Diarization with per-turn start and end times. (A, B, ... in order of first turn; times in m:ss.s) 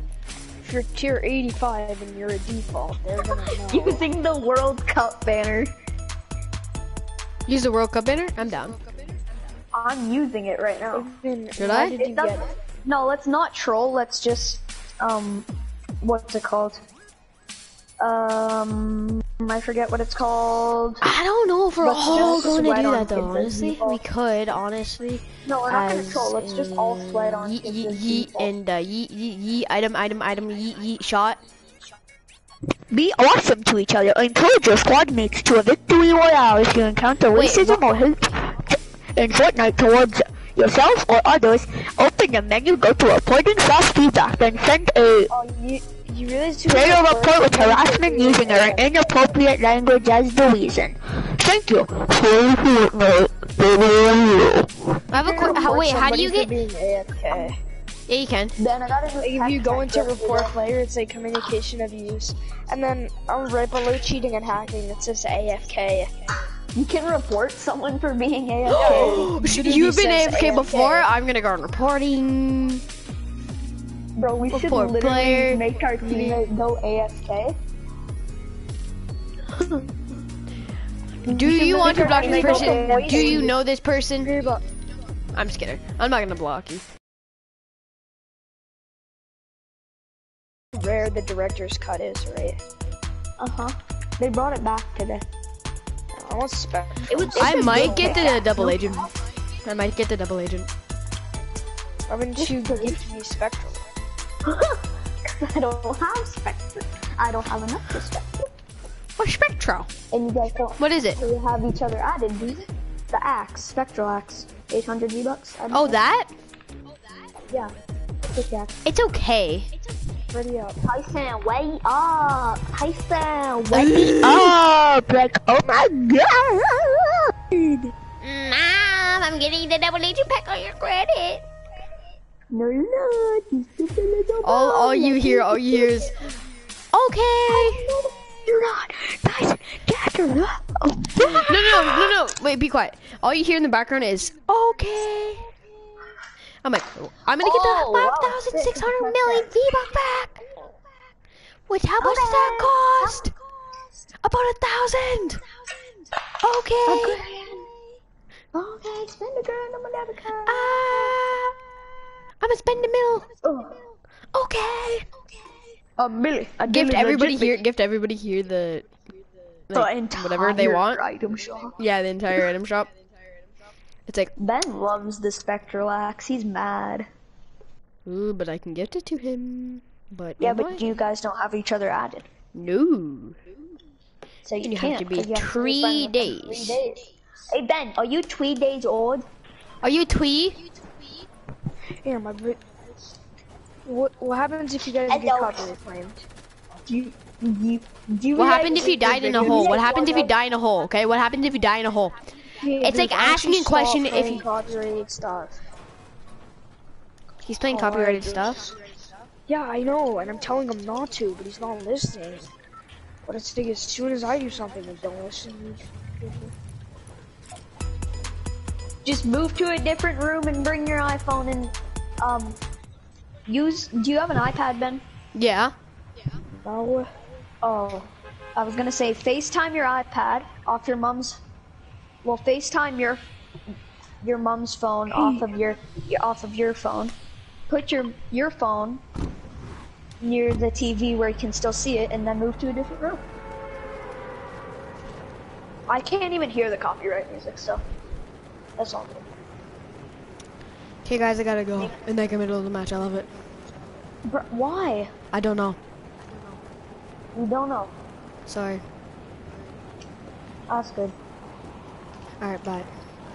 0:00.6-0:04.0 A
0:03.5-0:05.7 B
0:07.5-0:08.8 C
0:09.7-0:11.1 B
0:10.9-0:12.5 A
0:11.6-0:12.0 C
0:11.9-0:15.5 B
0:16.0-0:16.8 B
0:18.0-0:21.1 B
0:21.0-0:31.4 C
0:21.8-0:24.0 B
0:25.4-0:28.5 B
0:32.9-0:45.3 D
0:37.3-0:38.0 C
0:45.4-0:48.8 A
0:46.6-0:54.8 D
0:48.5-0:48.9 B
0:55.1-0:56.5 C
0:55.1-0:57.6 A
0:58.1-0:58.6 C
0:58.6-1:00.6 B
0:59.2-1:06.1 A
1:06.7-1:09.3 B
1:08.7-1:12.8 C
1:08.8-1:10.5 A
1:09.9-1:11.1 B
1:14.2-1:17.6 B
1:14.5-1:16.4 C
1:21.2-1:24.3 C
1:21.3-1:23.5 B
1:21.8-1:23.5 A
1:24.2-1:24.6 A
1:25.3-1:26.8 C
1:30.7-1:32.6 A
1:33.4-1:35.2 B
1:36.1-1:38.3 A
1:37.1-1:39.1 B
1:37.4-1:39.1 C
1:39.6-1:40.7 C
1:42.1-1:43.8 A
1:42.4-1:43.0 B
1:44.4-1:48.5 B
1:49.2-1:49.9 C
1:50.1-1:56.0 B
1:50.8-1:51.2 C
1:55.7-1:56.3 C
1:57.5-1:58.8 B
1:58.8-1:59.7 C
2:00.3-2:00.8 A
2:00.8-2:04.5 B
2:03.7-2:04.6 C
2:04.2-2:07.3 D
2:08.2-2:11.4 C
2:12.5-2:16.2 B
2:14.4-2:16.2 C
2:16.9-2:17.9 C
2:17.5-2:22.1 B
2:21.5-2:25.5 C
2:26.6-2:30.4 C
2:27.4-2:29.5 B
2:31.7-2:33.3 C
2:32.0-2:33.3 B
2:34.2-2:35.4 C
2:36.4-2:37.3 C
2:36.8-2:37.7 B
2:38.5-2:40.8 B
2:40.4-2:41.6 C
2:42.4-2:43.3 C
2:43.4-2:43.8 B
2:44.3-2:45.1 C
2:46.0-2:47.6 B
2:46.7-2:48.8 C
2:49.7-2:51.0 C
2:49.7-2:51.7 B
2:51.8-2:52.9 C
2:54.1-2:54.3 C
2:54.4-2:57.1 B
2:58.0-3:00.9 C
3:00.4-3:02.3 B
3:02.5-3:03.4 C
3:04.4-3:09.2 B
3:04.6-3:06.8 C
3:09.8-3:10.6 C
3:12.0-3:12.6 A
3:13.8-3:16.2 A
3:15.1-3:15.7 B
3:16.8-3:20.3 B
3:18.4-3:22.2 C
3:19.2-3:19.8 A
3:22.6-3:25.6 A
3:22.8-3:24.4 C
3:27.4-3:28.7 C
3:27.7-3:28.5 A
3:29.5-3:32.5 A
3:33.2-3:36.5 A
3:39.0-3:42.6 B
3:43.5-3:45.0 B
3:45.3-3:45.7 C
3:46.6-3:47.1 A
3:47.6-3:51.4 B
3:52.2-3:53.3 B
3:54.2-3:57.1 B
3:57.7-3:59.0 B
4:00.2-4:03.2 B
4:05.9-4:07.8 B
4:08.8-4:09.2 B
4:11.0-4:13.3 C
4:14.2-4:15.1 B
4:15.3-4:15.8 C
4:17.3-4:17.9 B
4:18.4-4:18.8 C
4:20.7-4:21.2 B
4:22.4-4:22.9 C